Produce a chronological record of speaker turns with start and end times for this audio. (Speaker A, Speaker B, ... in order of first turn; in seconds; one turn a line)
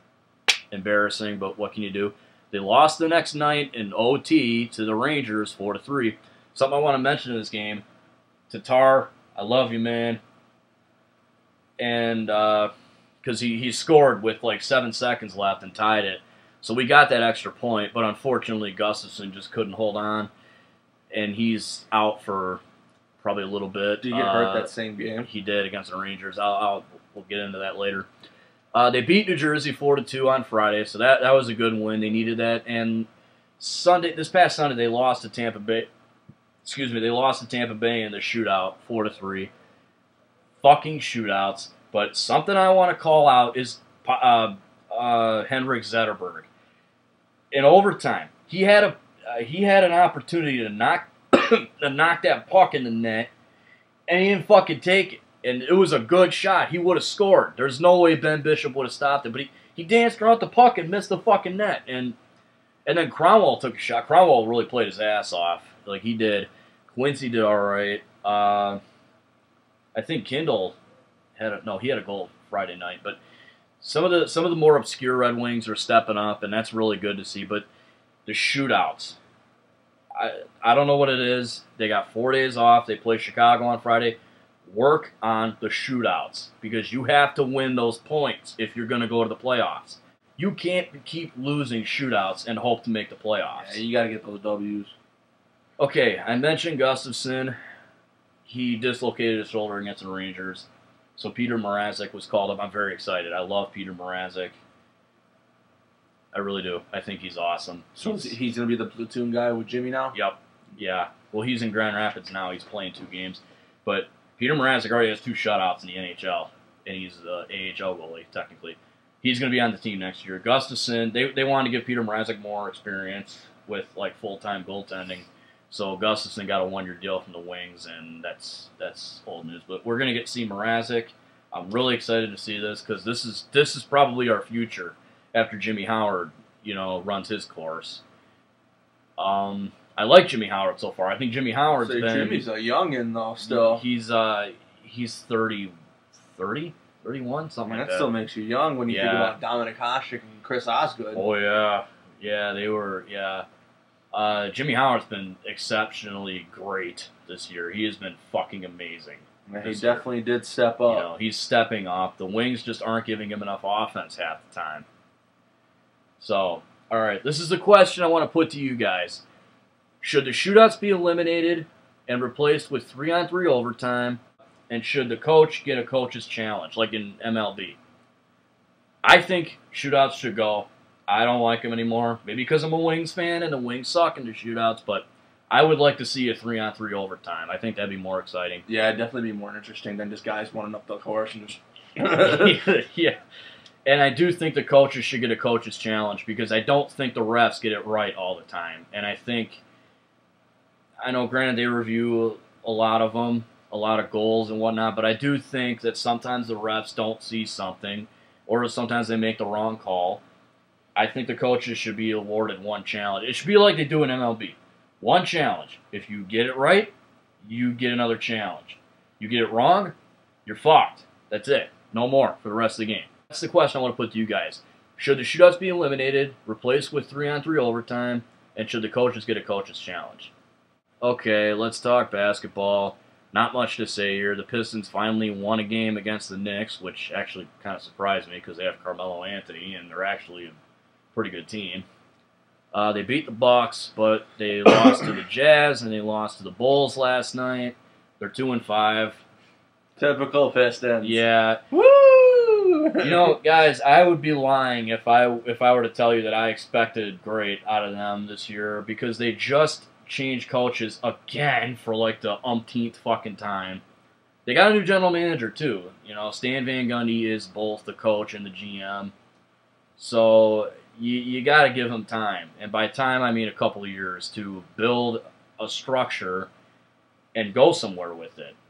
Speaker A: 0.7-7.8
Speaker A: 8.5-10.2
Speaker A: 11.8-12.7
Speaker A: 13.2-20.3
Speaker A: 21.1-22.6
Speaker A: 23.2-24.7
Speaker B: 24.0-25.3
Speaker A: 25.2-28.1
Speaker A: 28.7-33.1
Speaker A: 33.6-35.9
Speaker A: 36.6-39.5
Speaker A: 40.6-46.5
Speaker A: 47.5-53.3
Speaker A: 54.1-62.1
Speaker A: 62.9-68.8
Speaker A: 69.9-70.8
Speaker A: 71.4-73.2
Speaker A: 73.8-77.7
Speaker A: 78.2-79.2
Speaker A: 80.1-93.8
Speaker B: 93.6-94.9
Speaker A: 95.8-97.6
Speaker A: 98.5-104.6
Speaker A: 106.3-108.3
Speaker B: 108.0-110.2
Speaker A: 110.1-138.0
Speaker A: 139.2-142.4
Speaker B: 141.8-143.8
Speaker A: 143.4-148.1
Speaker B: 147.7-151.2
Speaker A: 148.9-149.3
Speaker A: 151.1-153.4
Speaker A: 154.1-160.0
Speaker B: 159.5-161.1
Speaker A: 160.9-164.8
Speaker A: 166.2-169.2
Speaker A: 170.0-177.8
Speaker A: 179.0-188.6
Speaker B: 188.7-192.6
Speaker A: 192.2-193.2
Speaker A: 193.8-199.6
Speaker A: 201.0-210.2
Speaker A: 210.9-219.9
Speaker A: 220.4-230.3
Speaker A: 231.0-240.6
Speaker A: 241.1-241.8
Speaker A: 242.7-249.2
Speaker B: 250.0-251.2
Speaker A: 251.0-251.6
Speaker B: 251.7-253.3
Speaker A: 253.0-263.8
Speaker A: 264.4-269.1
Speaker A: 270.0-276.5
Speaker A: 277.3-278.6